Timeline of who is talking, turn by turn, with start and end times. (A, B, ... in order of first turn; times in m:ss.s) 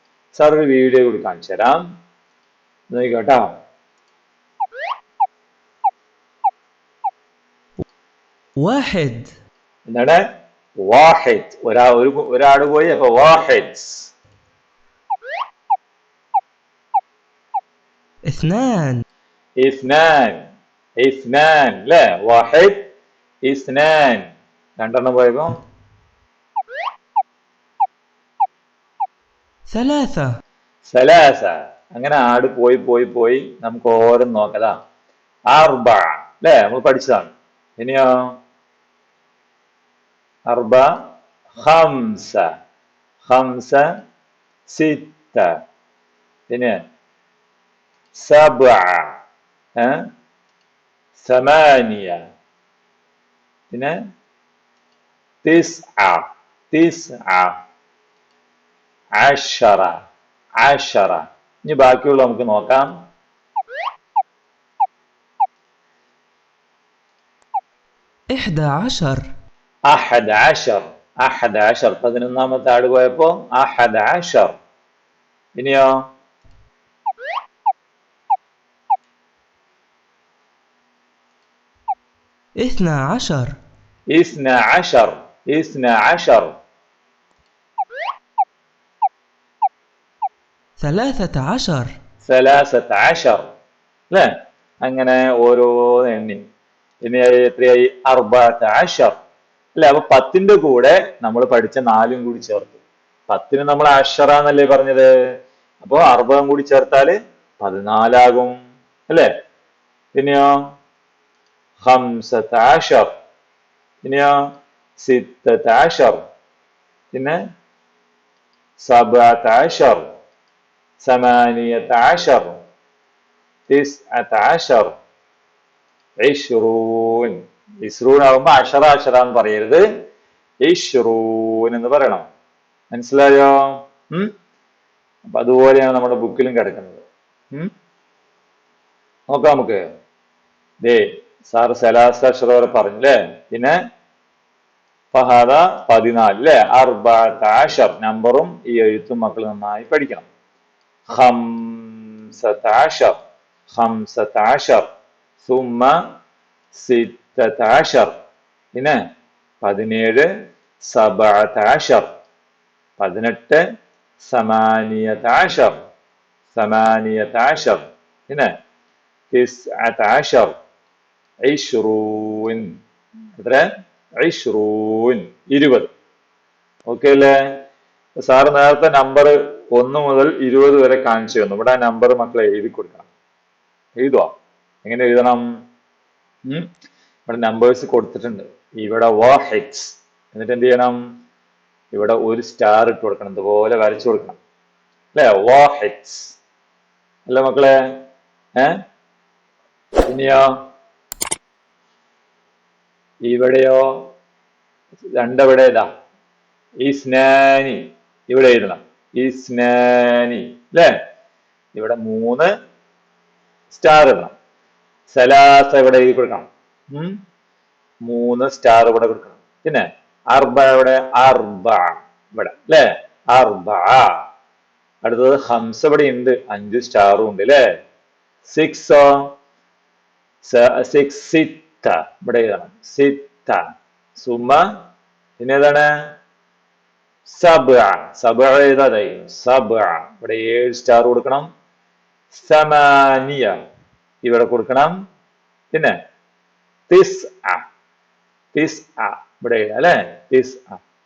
0:00.3-0:01.8 A
0:02.9-0:03.5 A
0:08.6-0:09.3 B
0:09.9-0:10.2 A
0:10.9-0:14.1 A
0:18.3-0:19.0 B
0:19.6-0:20.4 A
0:21.0-0:22.9 A
0:23.5-0:24.3 A
0:24.8-0:25.6 A
0:29.7-0:30.3 B
0:30.8-0:34.7 A
0:35.5-0:38.1 A
0:40.5-0:40.9 A
0:41.6-0:42.5 A
0:43.2-0:43.8 A
0:44.7-0:45.5 A
0:46.5-0:46.8 A
0:48.2-0:49.1 A
0:49.8-0:50.0 A
0:51.2-0:52.2 A
0:55.4-0:57.6 A
0:59.2-1:00.0 A
1:00.6-1:02.9 A
1:08.3-1:09.3 B
1:09.9-1:14.5 A
1:15.6-1:15.9 A
1:22.6-1:23.5 B
1:24.1-1:26.5 A
1:30.8-1:31.9 B
1:32.2-1:33.5 A
1:34.8-1:36.4 A
1:37.0-1:39.2 A
1:39.8-1:45.1 A
1:45.8-1:48.6 A
1:50.1-1:50.5 A
1:51.8-1:53.1 A
1:54.0-1:54.3 A
1:55.0-1:56.2 A
1:57.1-1:57.4 A
1:58.8-2:00.0 A
2:01.0-2:02.6 A
2:03.7-2:04.9 A
2:06.2-2:09.8 A
2:10.6-2:12.2 A
2:12.9-2:14.3 A
2:15.3-2:17.7 A
2:19.3-2:19.8 A
2:20.8-2:23.8 A
2:25.1-2:30.3 A
2:31.1-2:33.2 A
2:33.7-2:34.9 A
2:35.4-2:35.9 A
2:36.7-2:38.1 A
2:39.6-2:40.3 A
2:40.8-2:42.1 A
2:43.0-2:43.6 A
2:44.2-2:45.8 A
2:46.5-2:48.5 A
2:49.3-2:50.5 A
2:51.5-2:52.7 A
2:53.4-2:53.6 A
2:54.2-2:55.9 A
2:56.9-2:57.4 A
2:58.2-3:03.1 A
3:04.0-3:04.3 A
3:04.8-3:05.4 A
3:07.3-3:11.0 A
3:11.9-3:14.4 A
3:15.1-3:16.4 A
3:17.3-3:17.8 A
3:20.1-3:20.5 A
3:23.3-3:24.0 A
3:25.2-3:25.9 A
3:26.8-3:30.9 A
3:31.7-3:32.5 A
3:33.7-3:34.3 A
3:35.1-3:37.2 A
3:38.1-3:44.1 A
3:45.0-3:47.6 A
3:48.4-3:49.3 A
3:50.4-3:53.6 A
3:54.2-3:54.6 A
3:55.4-3:55.9 A
3:57.3-4:01.5 A
4:02.3-4:03.6 A
4:04.2-4:04.9 A
4:06.9-4:07.6 A
4:08.5-4:10.8 A